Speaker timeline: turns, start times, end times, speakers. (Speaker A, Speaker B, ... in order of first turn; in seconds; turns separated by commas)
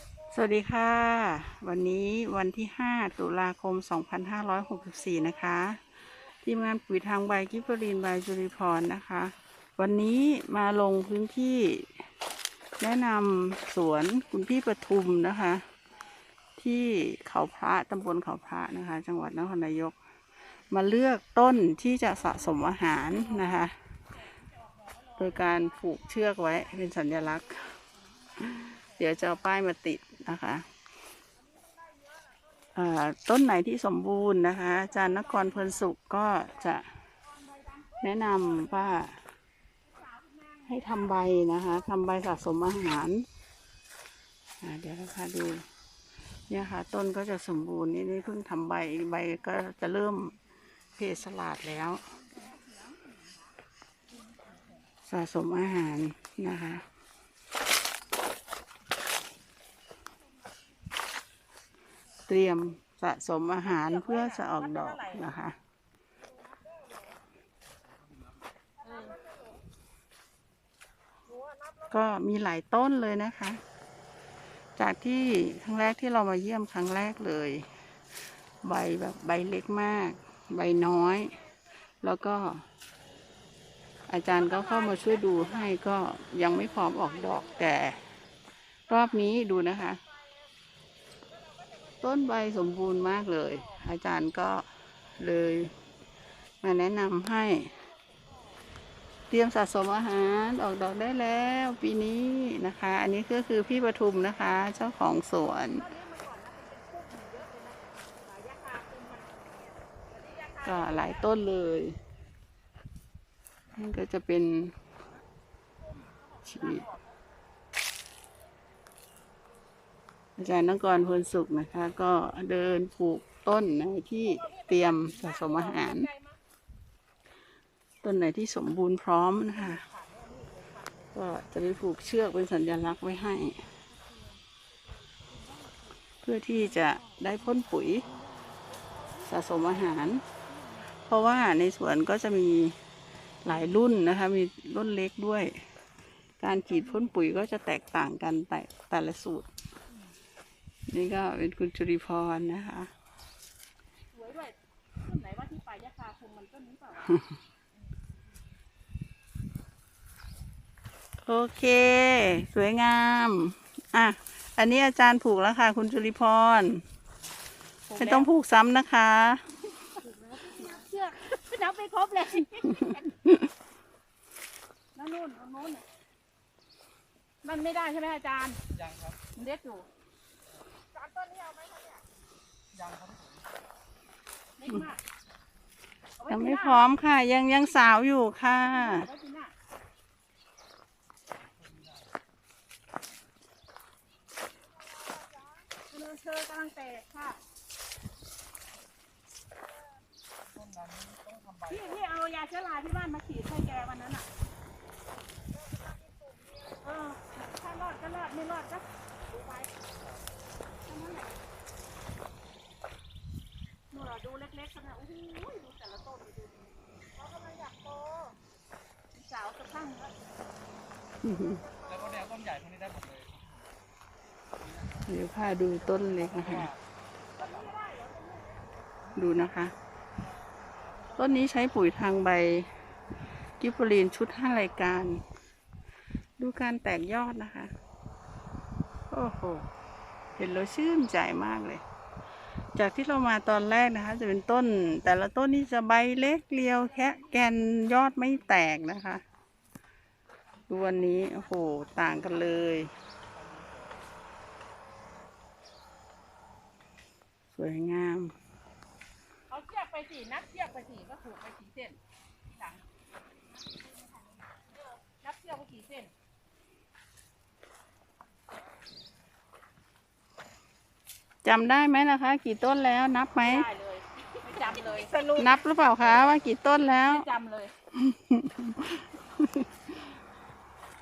Speaker A: 0.3-5.8, Speaker A: 6.4-12.0, Speaker A: 12.8-15.7, Speaker A: 16.6-19.9, Speaker A: 20.7-23.7, Speaker B: 22.3-23.5, Speaker B: 24.1-29.4, Speaker A: 25.2-27.7, Speaker A: 28.4-30.6, Speaker A: 32.7-36.9, Speaker B: 34.7-36.7, Speaker B: 37.2-38.9, Speaker A: 38.0-39.2, Speaker B: 39.8-41.7, Speaker A: 40.7-43.2, Speaker A: 44.6-45.6, Speaker A: 46.5-50.3, Speaker A: 51.0-52.0, Speaker B: 52.1-53.5, Speaker B: 54.5-54.8, Speaker A: 55.0-56.8, Speaker A: 62.3-65.6, Speaker B: 63.6-65.3, Speaker B: 68.8-69.3, Speaker A: 71.9-73.6, Speaker A: 74.8-77.7, Speaker A: 78.6-81.4, Speaker A: 82.0-82.6, Speaker A: 84.1-88.0, Speaker B: 84.3-85.7, Speaker B: 86.5-87.6, Speaker A: 88.9-90.0, Speaker A: 92.0-94.7, Speaker A: 95.2-95.7, Speaker A: 96.6-97.7, Speaker A: 99.3-105.9, Speaker B: 105.8-109.4, Speaker B: 110.1-111.3, Speaker A: 110.6-112.0, Speaker A: 113.7-114.7, Speaker B: 115.8-117.1, Speaker A: 116.5-116.8, Speaker A: 120.4-126.1, Speaker B: 124.2-126.4, Speaker A: 128.0-129.8, Speaker B: 129.5-131.4, Speaker A: 131.1-133.6, Speaker A: 136.2-138.1, Speaker B: 136.6-136.9, Speaker B: 138.2-140.0, Speaker A: 139.3-140.2, Speaker A: 141.1-142.8, Speaker A: 143.4-145.6, Speaker A: 146.4-149.5, Speaker B: 146.7-147.1, Speaker A: 150.9-152.9, Speaker B: 154.1-157.2, Speaker A: 161.2-166.8, Speaker B: 167.9-168.3, Speaker A: 167.9-169.4, Speaker B: 170.0-173.1, Speaker B: 174.9-175.8, Speaker B: 177.4-178.6, Speaker C: 178.7-179.2, Speaker B: 179.3-179.9, Speaker C: 182.7-183.4, Speaker B: 184.6-185.0, Speaker B: 186.2-186.9, Speaker A: 186.3-189.1, Speaker B: 188.7-189.5, Speaker C: 191.6-192.0, Speaker B: 195.9-197.4, Speaker C: 200.6-201.8, Speaker B: 201.7-204.3, Speaker B: 206.8-209.7, Speaker B: 210.8-211.3, Speaker B: 213.9-216.7, Speaker B: 217.3-217.9, Speaker B: 219.1-220.2, Speaker A: 221.2-221.6, Speaker C: 221.9-223.5, Speaker A: 225.1-226.7, Speaker C: 226.0-226.8, Speaker B: 227.4-228.6, Speaker A: 229.1-229.7, Speaker A: 231.2-232.7, Speaker A: 233.6-235.2, Speaker A: 236.4-237.7, Speaker A: 239.1-239.7, Speaker A: 240.3-241.8, Speaker A: 242.7-249.2, Speaker B: 246.8-248.6, Speaker B: 250.6-252.6, Speaker A: 250.7-252.9, Speaker C: 253.3-254.0, Speaker A: 257.5-258.3, Speaker B: 259.5-262.8, Speaker B: 264.6-266.1, Speaker A: 271.4-273.7, Speaker B: 273.4-276.3, Speaker A: 275.4-277.3, Speaker B: 277.1-277.7, Speaker A: 277.9-279.7